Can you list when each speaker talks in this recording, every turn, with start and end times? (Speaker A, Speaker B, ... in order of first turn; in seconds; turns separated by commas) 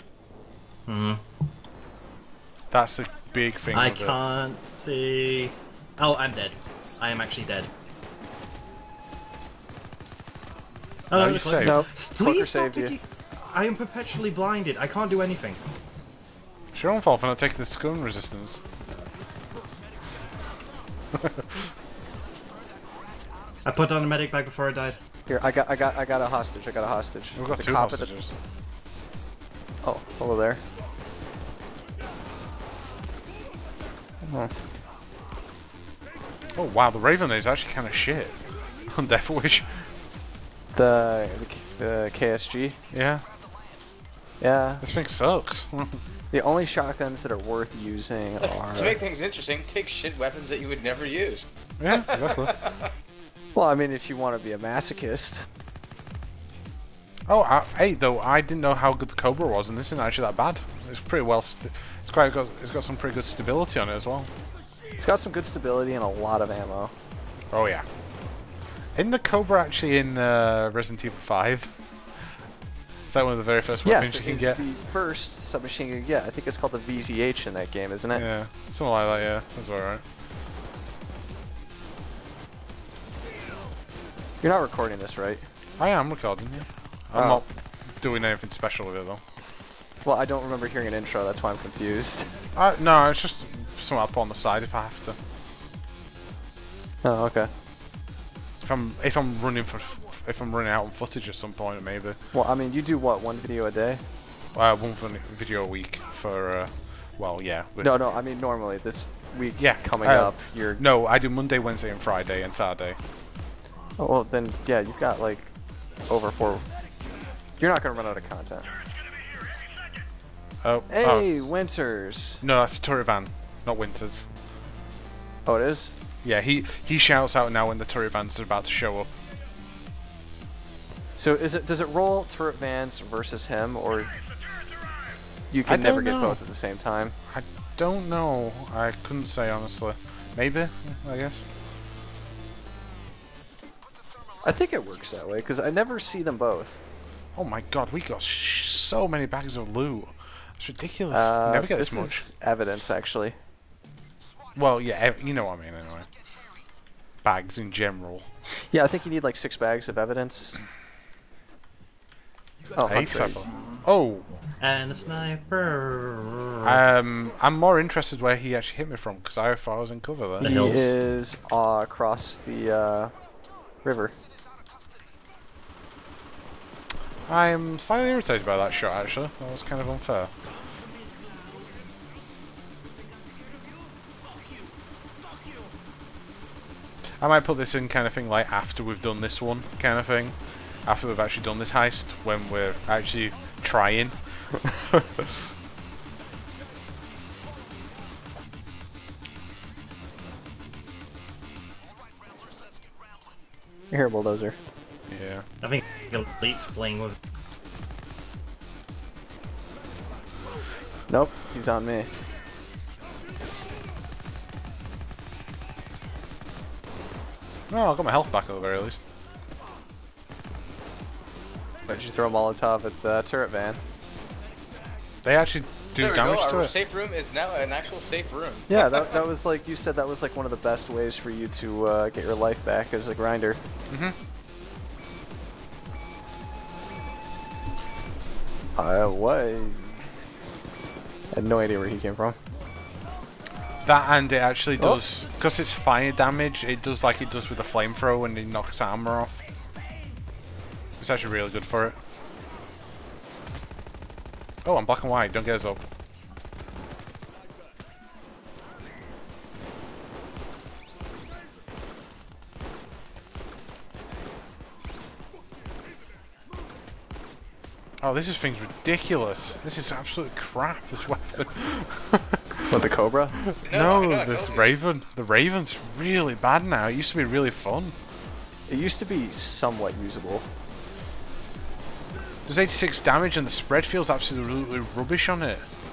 Speaker A: 0.9-1.2, Speaker B: 2.7-4.2, Speaker A: 3.7-7.7, Speaker A: 11.1-15.6, Speaker B: 11.1-11.8, Speaker C: 11.6-12.9, Speaker B: 16.7-18.6, Speaker B: 21.1-21.7, Speaker A: 23.6-25.0, Speaker C: 25.3-28.1, Speaker B: 27.4-28.3, Speaker C: 29.8-30.6, Speaker C: 34.2-34.5, Speaker B: 36.5-39.9, Speaker C: 40.7-42.8, Speaker B: 42.9-43.2, Speaker C: 44.4-44.8, Speaker B: 44.8-46.0, Speaker C: 46.3-49.0, Speaker D: 48.4-52.9, Speaker B: 51.8-52.5, Speaker C: 53.5-55.5, Speaker B: 57.3-64.3, Speaker C: 65.0-66.9, Speaker B: 67.5-67.8, Speaker B: 68.9-72.3, Speaker B: 73.1-74.6, Speaker C: 73.8-78.3, Speaker B: 78.1-80.0, Speaker C: 84.4-85.4, Speaker B: 85.8-87.5, Speaker C: 87.1-87.4, Speaker B: 88.0-89.2, Speaker C: 90.0-92.3, Speaker B: 92.5-95.2, Speaker C: 97.0-97.5, Speaker B: 98.6-102.2, Speaker C: 102.3-104.0, Speaker B: 104.5-107.9, Speaker C: 107.8-110.8, Speaker B: 109.6-113.0, Speaker C: 114.0-115.5, Speaker C: 116.1-116.8, Speaker C: 117.6-118.7, Speaker B: 120.6-121.3, Speaker C: 120.9-122.4, Speaker B: 122.4-124.2, Speaker C: 125.5-125.9, Speaker B: 126.2-129.1, Speaker C: 131.2-134.1, Speaker C: 135.5-137.1, Speaker B: 135.7-136.4, Speaker B: 137.3-141.4, Speaker C: 144.4-146.8, Speaker B: 147.3-152.2, Speaker C: 151.1-153.4, Speaker B: 154.5-156.1, Speaker B: 157.2-158.3, Speaker C: 158.6-160.6, Speaker C: 162.7-163.4, Speaker B: 162.8-164.3, Speaker A: 164.6-166.8, Speaker B: 166.6-170.6, Speaker A: 170.4-170.9, Speaker C: 170.4-173.1, Speaker C: 173.8-174.1, Speaker B: 177.2-180.3, Speaker B: 187.1-195.5, Speaker C: 203.9-204.6, Speaker B: 205.1-205.4, Speaker A: 205.6-207.2, Speaker C: 211.1-212.1, Speaker B: 217.7-219.0, Speaker C: 221.9-223.8, Speaker B: 225.2-226.7, Speaker D: 226.0-229.1, Speaker C: 228.7-233.6, Speaker B: 233.9-234.2, Speaker C: 238.8-240.1, Speaker C: 241.3-242.4, Speaker B: 243.8-249.4, Speaker B: 251.0-252.0, Speaker B: 254.6-255.8, Speaker B: 268.0-272.7, Speaker C: 272.7-273.4, Speaker B: 273.4-277.9, Speaker D: 273.6-274.7, Speaker C: 278.7-280.4, Speaker B: 282.4-285.7